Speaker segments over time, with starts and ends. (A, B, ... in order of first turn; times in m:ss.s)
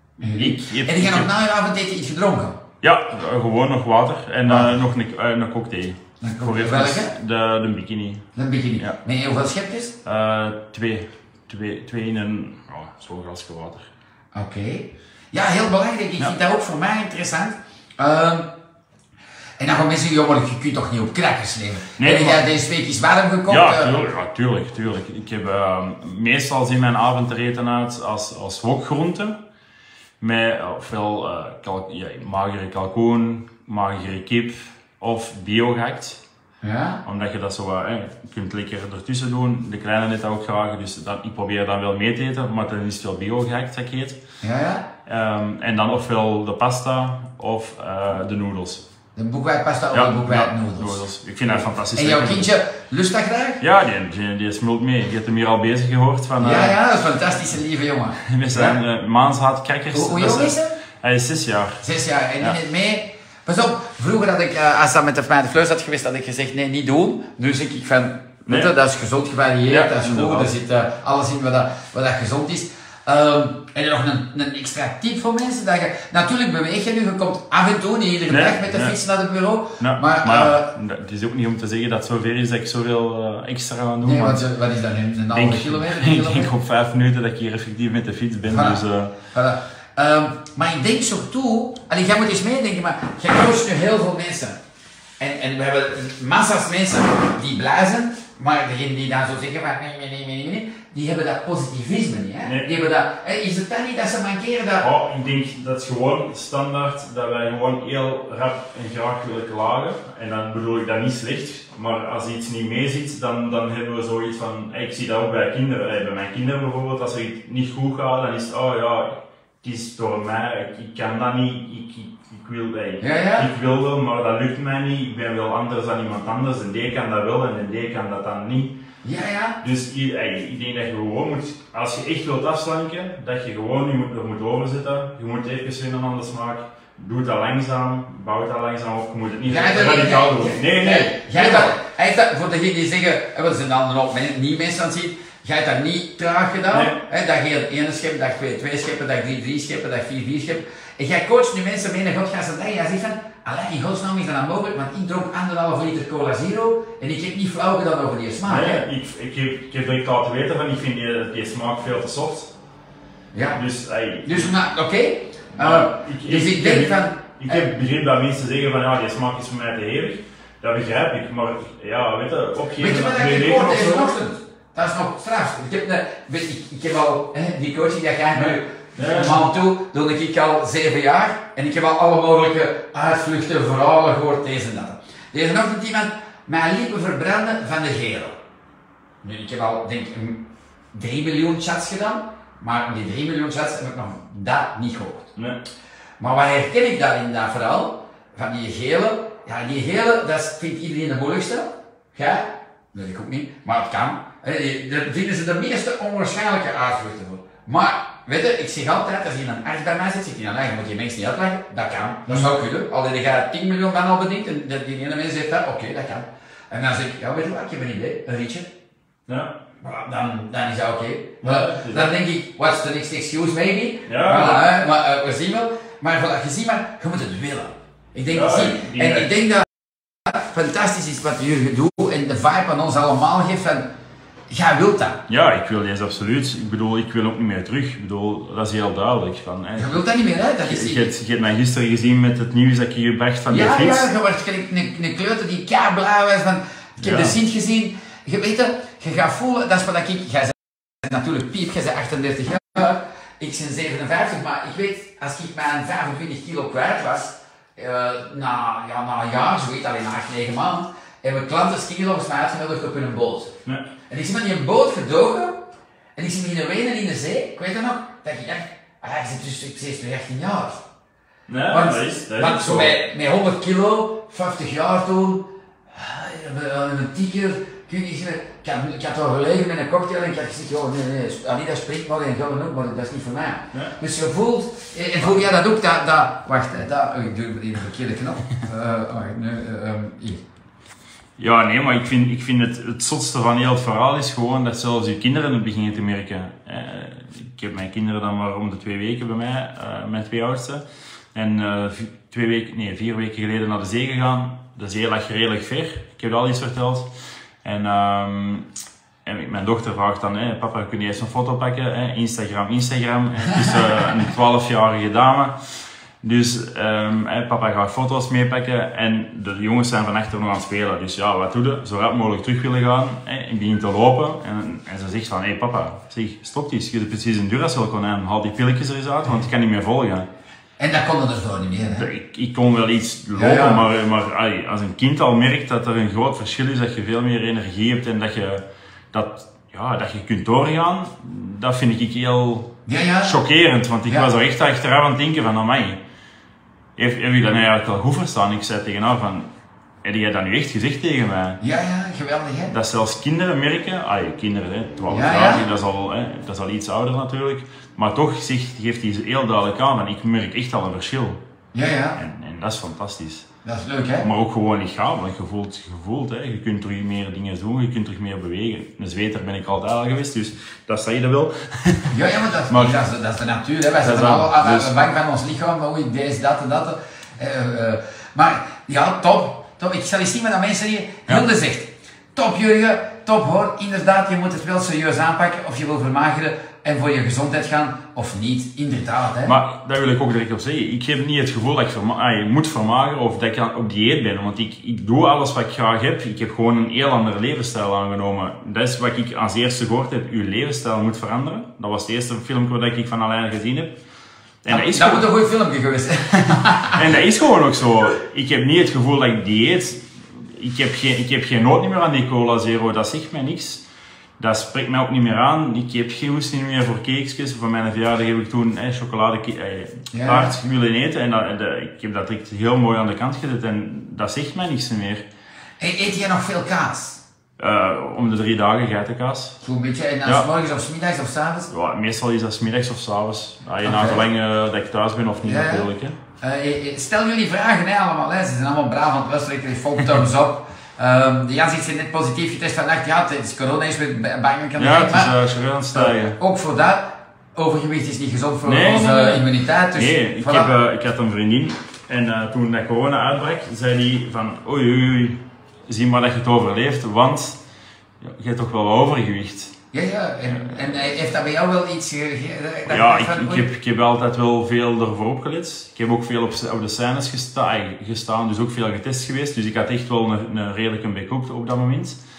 0:00.2-0:02.6 A
0:00.3-0:01.3 B
0:02.8-0:08.2 B
0:04.4-0:04.8 A
0:06.2-0:07.1 A
0:08.3-0:10.0 A
0:10.0-0:13.9 B
0:14.3-0:18.5 A
0:19.6-0:23.9 A
0:22.0-0:22.4 B
0:23.5-0:29.4 B
0:30.2-0:36.2 B
0:36.6-0:37.0 A
0:37.0-0:44.2 B
0:44.4-0:44.8 A
0:45.0-0:48.8 B
0:49.2-0:53.6 A
0:49.9-0:52.5 B
0:53.6-0:56.8 B
0:56.4-0:58.8 A
0:58.2-1:01.8 B
0:59.9-1:00.8 A
1:01.8-1:20.7 A
1:08.4-1:08.7 B
1:09.7-1:10.5 B
1:18.3-1:18.9 B
1:19.8-1:24.4 B
1:24.0-1:26.5 A
1:25.3-1:29.1 B
1:28.5-1:34.6 A
1:35.2-1:44.9 A
1:42.4-1:42.7 B
1:44.8-2:08.8 B
2:03.0-2:03.5 A
2:09.0-2:09.6 A
2:09.6-2:21.8 B
2:19.5-2:38.8 A
2:26.7-2:27.0 B
2:38.4-2:42.5 B
2:43.3-2:43.6 A
2:43.5-2:44.5 B
2:44.2-2:47.6 A
2:45.6-2:54.2 B
2:52.8-3:08.4 A
2:58.3-2:59.5 B
3:09.2-3:15.3 A
3:15.4-3:15.6 B
3:16.2-3:38.7 A
3:32.3-3:32.5 B
3:39.3-3:39.6 B
3:39.8-3:49.7 A
3:41.4-3:42.1 B
3:44.0-3:44.6 B
3:48.3-3:49.3 B
3:50.2-3:53.9 A
3:54.5-3:55.2 A
3:55.3-4:00.0 B
3:59.8-4:01.1 A
4:00.6-4:04.1 B
4:03.5-4:23.5 A
4:07.0-4:07.4 B
4:24.1-4:25.6 A
4:26.2-4:30.8 A
4:31.5-4:33.0 B
4:31.7-4:50.4 A
4:45.2-4:45.5 B
4:51.4-5:07.1 B
5:07.6-5:08.6 B
5:09.2-5:15.6 B
5:16.2-5:30.3 B
5:30.8-5:32.1 A
5:31.8-5:42.7 B
5:33.3-5:33.8 A
5:42.8-5:43.4 A
5:43.2-5:46.0 B
5:47.0-5:49.5 B
5:50.0-5:51.6 B
5:51.6-5:52.7 A
5:52.7-6:01.4 B
5:55.1-5:55.7 A
6:01.7-6:02.2 A
6:02.2-6:03.5 B
6:03.6-6:04.3 A
6:04.2-6:12.1 B
6:12.1-6:29.6 A
6:12.7-6:13.0 B
6:14.0-6:14.9 B
6:29.4-6:44.0 B
6:44.6-6:45.3 B
6:44.7-6:47.1 A
6:46.9-6:53.8 B
6:54.4-7:05.2 B
7:00.1-7:00.5 A
7:05.8-7:07.2 A
7:07.6-7:09.6 B
7:09.6-7:11.7 A
7:11.7-7:16.2 B
7:13.8-7:14.2 A
7:15.4-7:15.9 A
7:16.4-7:25.3 A
7:24.8-7:26.4 B
7:25.9-7:30.7 A
7:28.6-7:37.6 B
7:38.2-7:39.7 B
7:39.9-7:43.7 A
7:40.5-7:41.1 B
7:42.9-7:52.2 B